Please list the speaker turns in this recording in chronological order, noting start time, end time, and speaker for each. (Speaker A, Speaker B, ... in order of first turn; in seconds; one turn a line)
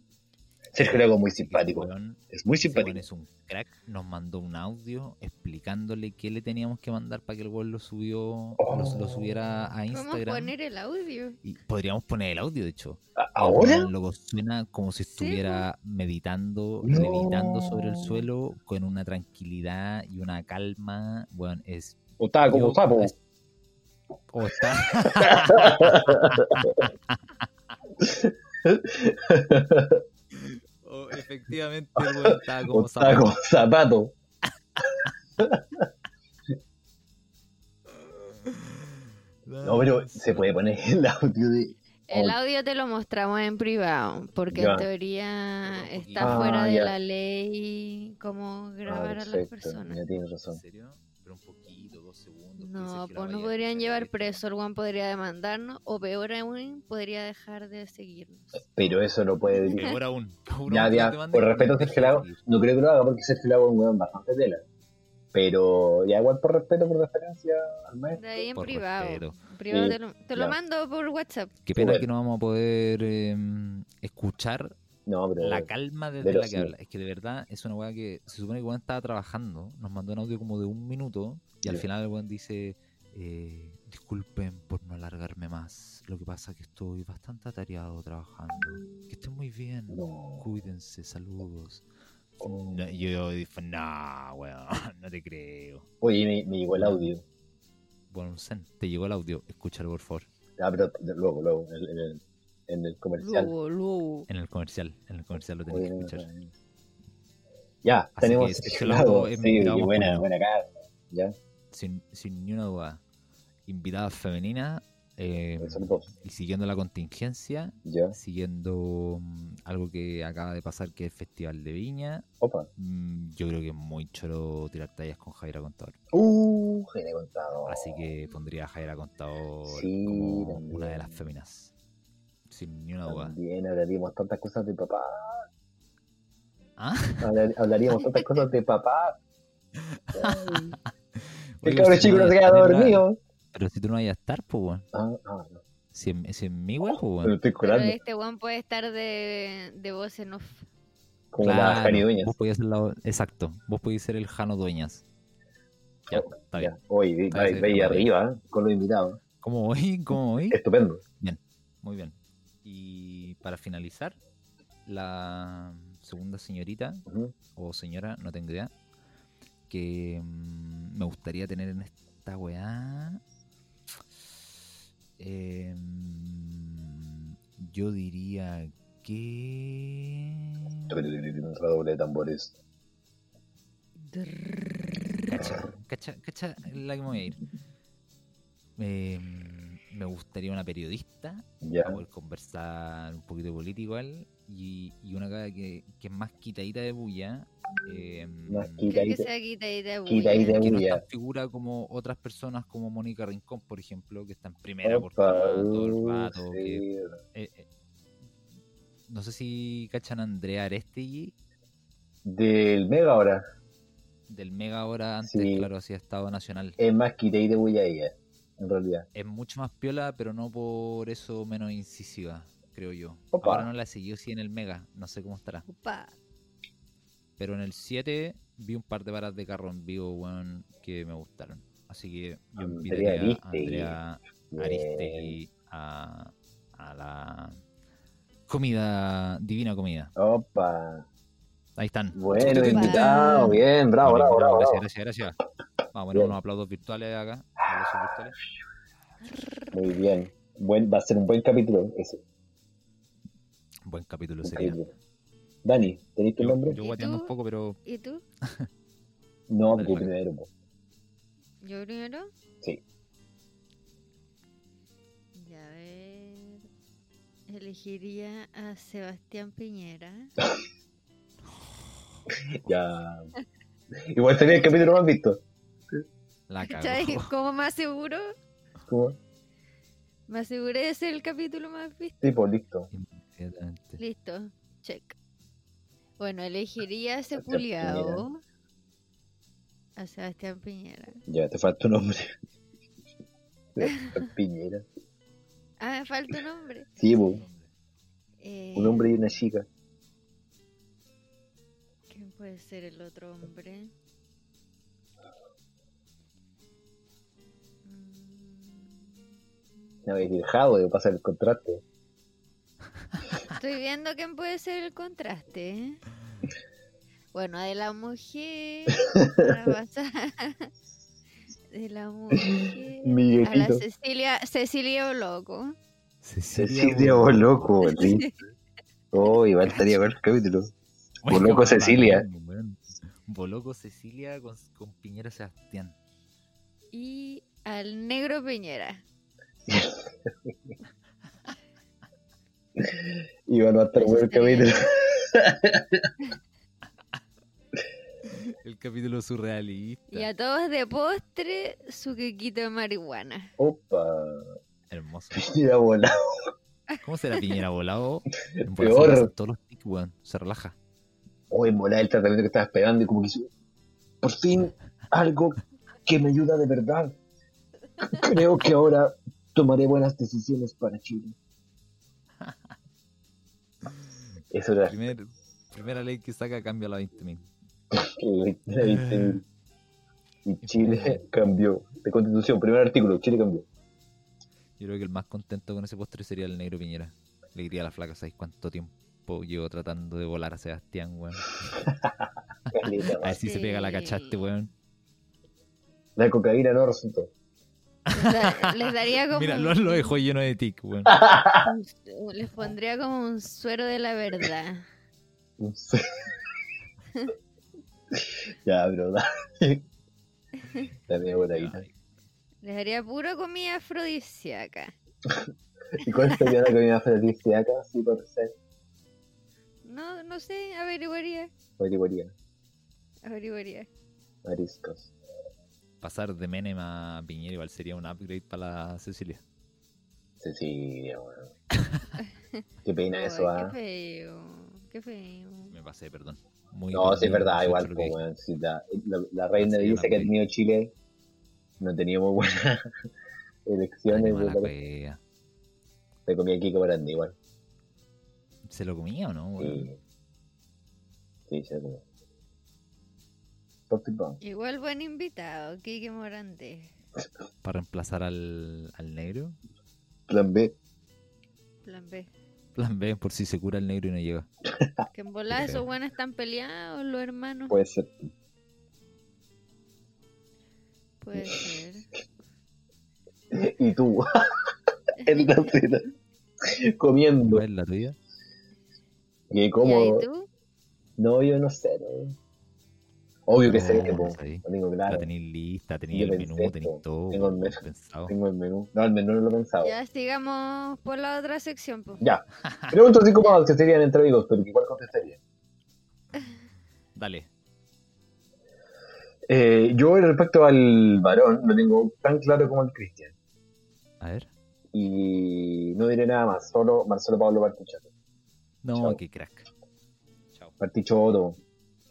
Speaker A: 0.7-3.0
Speaker B: 1.4-10.5
Speaker A: 8.6-9.5
Speaker C: 9.9-11.4
Speaker B: 11.4-23.1
Speaker A: 13.2-13.9
Speaker C: 15.1-15.6
Speaker A: 16.8-18.2
Speaker A: 22.2-23.1
Speaker B: 24.3-26.9
Speaker A: 25.0-26.9
Speaker A: 28.0-30.0
Speaker B: 30.3-33.3
Speaker A: 32.0-34.1
Speaker A: 35.4-35.9
Speaker B: 38.0-38.9
Speaker B: 39.5-40.5
Speaker A: 39.6-42.4
Speaker C: 42.1-50.0
Speaker A: 44.5-44.9
Speaker B: 45.6-46.5
Speaker A: 46.2-46.9
Speaker A: 48.9-50.6
Speaker B: 50.5-54.4
Speaker C: 52.6-58.6
Speaker A: 58.6-59.9
Speaker C: 59.5-59.9
Speaker B: 59.7-62.4
Speaker A: 60.7-64.6
Speaker A: 65.3-68.2
Speaker C: 68.1-71.5
Speaker B: 68.5-69.4
Speaker A: 69.7-70.5
Speaker B: 71.7-74.7
Speaker A: 71.8-72.1
Speaker A: 75.0-75.7
Speaker B: 75.4-91.8
Speaker A: 76.2-76.7
Speaker A: 89.9-90.5
Speaker A: 92.4-92.9
Speaker B: 92.7-95.8
Speaker A: 96.0-97.2
Speaker B: 96.7-97.1
Speaker B: 98.1-100.2
Speaker A: 100.6-103.5
Speaker C: 103.2-104.3
Speaker B: 104.3-106.2
Speaker A: 105.7-106.5
Speaker A: 107.8-111.3
Speaker B: 108.2-110.2
Speaker B: 111.7-113.0
Speaker B: 113.7-122.2
Speaker A: 115.6-116.1
Speaker A: 117.8-118.2
Speaker A: 122.4-122.7
Speaker B: 122.8-126.0
Speaker A: 126.1-128.0
Speaker B: 127.7-131.7
Speaker A: 129.7-131.2
Speaker B: 132.5-133.3
Speaker A: 133.1-135.5
Speaker B: 136.8-137.3
Speaker A: 137.2-139.2
Speaker B: 139.8-144.8
Speaker A: 140.1-140.8
Speaker A: 141.6-143.2
Speaker A: 144.9-145.6
Speaker B: 145.9-147.4
Speaker A: 147.2-148.0
Speaker C: 147.6-150.7
Speaker A: 151.3-152.3
Speaker B: 151.4-155.0
Speaker B: 156.1-156.7
Speaker A: 156.1-159.2
Speaker B: 157.3-158.1
Speaker B: 159.4-160.6
Speaker A: 160.5-161.0
Speaker B: 161.2-164.2
Speaker B: 164.8-167.0
Speaker A: 167.1-167.3
Speaker B: 167.5-168.7
Speaker B: 169.7-173.2
Speaker B: 175.2-180.9
Speaker A: 180.9-182.6
Speaker C: 184.0-185.1
Speaker B: 185.3-187.4
Speaker B: 188.8-199.0
Speaker A: 191.6-192.0
Speaker A: 198.5-199.3
Speaker C: 198.9-200.7
Speaker A: 200.1-201.0
Speaker B: 200.3-207.7
Speaker A: 204.8-207.2
Speaker B: 209.1-211.3
Speaker A: 212.2-213.4
Speaker B: 214.3-216.8
Speaker A: 215.2-215.7
Speaker A: 216.8-219.1
Speaker B: 219.1-225.7
Speaker A: 223.3-223.7
Speaker C: 225.7-226.2
Speaker B: 227.4-237.6
Speaker A: 232.6-234.0
Speaker A: 234.5-235.3
Speaker B: 238.5-240.1
Speaker A: 240.2-241.1
Speaker B: 241.8-245.4
Speaker A: 242.1-244.8
Speaker C: 242.3-243.6
Speaker B: 245.9-248.4
Speaker C: 249.2-249.8
Speaker A: 249.7-252.2
Speaker B: 253.8-254.8
Speaker A: 254.4-254.9
Speaker A: 255.6-256.8
Speaker B: 256.4-257.8
Speaker C: 256.8-257.3
Speaker C: 257.8-258.2
Speaker A: 259.5-260.5
Speaker B: 259.7-260.1
Speaker C: 261.6-262.3
Speaker C: 265.3-266.7
Speaker C: 267.5-270.3
Speaker A: 272.5-273.3
Speaker A: 274.0-275.4
Speaker B: 276.5-277.3
Speaker C: 276.6-278.3
Speaker A: 278.8-279.2
Speaker C: 280.3-282.2
Speaker A: 282.2-282.9
Speaker B: 282.9-284.0
Speaker C: 284.0-285.1
Speaker C: 286.2-288.4
Speaker A: 287.4-288.2
Speaker C: 290.0-291.2
Speaker A: 291.3-292.4
Speaker A: 293.7-294.8
Speaker C: 293.8-294.2
Speaker C: 295.8-296.9
Speaker A: 297.0-297.4
Speaker B: 297.2-297.7
Speaker C: 298.4-299.1
Speaker A: 298.8-299.6
Speaker C: 302.1-303.9
Speaker C: 307.8-309.1
Speaker A: 310.0-311.8
Speaker C: 313.5-316.0
Speaker C: 317.3-320.7
Speaker A: 319.0-319.5
Speaker C: 321.7-325.8
Speaker A: 322.4-323.8
Speaker B: 326.2-327.6
Speaker A: 326.5-328.3
Speaker C: 327.8-328.3
Speaker A: 329.1-330.7
Speaker B: 329.6-330.0
Speaker B: 331.2-335.9
Speaker A: 331.3-332.2
Speaker C: 336.9-339.0
Speaker A: 339.7-340.5
Speaker A: 342.8-346.1
Speaker C: 343.9-344.7
Speaker B: 348.6-350.3
Speaker C: 350.1-353.5
Speaker A: 353.6-354.6
Speaker B: 354.9-355.4
Speaker A: 355.3-356.5
Speaker B: 357.0-360.8
Speaker A: 358.6-359.3
Speaker A: 361.5-363.5
Speaker A: 364.2-367.2
Speaker A: 368.0-371.4
Speaker A: 374.5-375.0
Speaker B: 374.9-377.5
Speaker A: 377.9-379.4
Speaker B: 378.8-379.4
Speaker A: 380.4-383.6
Speaker B: 380.6-381.2
Speaker B: 384.8-391.8
Speaker A: 392.7-393.4
Speaker B: 393.2-394.7
Speaker C: 393.2-394.4
Speaker A: 396.1-397.3
Speaker B: 398.1-401.2
Speaker C: 398.1-400.1
Speaker A: 401.1-401.7
Speaker C: 401.6-404.9
Speaker A: 405.6-406.0
Speaker A: 408.1-409.8
Speaker A: 411.1-411.8
Speaker B: 411.1-411.9
Speaker C: 412.6-414.9
Speaker A: 415.3-418.5
Speaker C: 419.8-421.5
Speaker A: 421.8-422.3
Speaker C: 423.2-423.9
Speaker A: 424.4-425.1
Speaker B: 426.0-429.4
Speaker A: 430.4-431.5
Speaker B: 431.7-432.1
Speaker C: 432.2-432.6
Speaker A: 432.8-433.7
Speaker C: 433.1-435.7
Speaker B: 435.7-438.2
Speaker A: 436.9-440.9
Speaker B: 439.6-440.3
Speaker A: 441.8-442.9
Speaker A: 443.6-444.7
Speaker B: 444.1-445.2
Speaker A: 446.2-447.3
Speaker B: 448.7-449.9
Speaker A: 449.6-450.0
Speaker A: 451.5-452.0
Speaker A: 453.9-454.4
Speaker C: 454.4-456.9
Speaker B: 457.6-459.6
Speaker A: 460.3-460.7
Speaker C: 461.8-462.3
Speaker B: 462.8-464.5
Speaker C: 465.1-467.8
Speaker B: 465.5-465.8
Speaker A: 467.7-468.3
Speaker C: 471.2-472.1
Speaker A: 473.5-474.3
Speaker C: 475.2-475.5
Speaker A: 475.2-476.0
Speaker A: 476.6-477.6
Speaker B: 477.4-478.2
Speaker A: 479.5-480.2
Speaker C: 479.8-480.5
Speaker A: 481.2-482.4
Speaker A: 483.5-485.3
Speaker B: 483.7-488.3
Speaker A: 486.1-489.9
Speaker C: 489.8-492.2
Speaker A: 492.2-495.4
Speaker B: 492.6-492.9
Speaker B: 497.1-497.5
Speaker A: 499.5-503.3
Speaker B: 504.2-504.5
Speaker A: 504.9-508.1
Speaker B: 508.8-509.7
Speaker A: 508.9-509.2
Speaker A: 510.8-511.6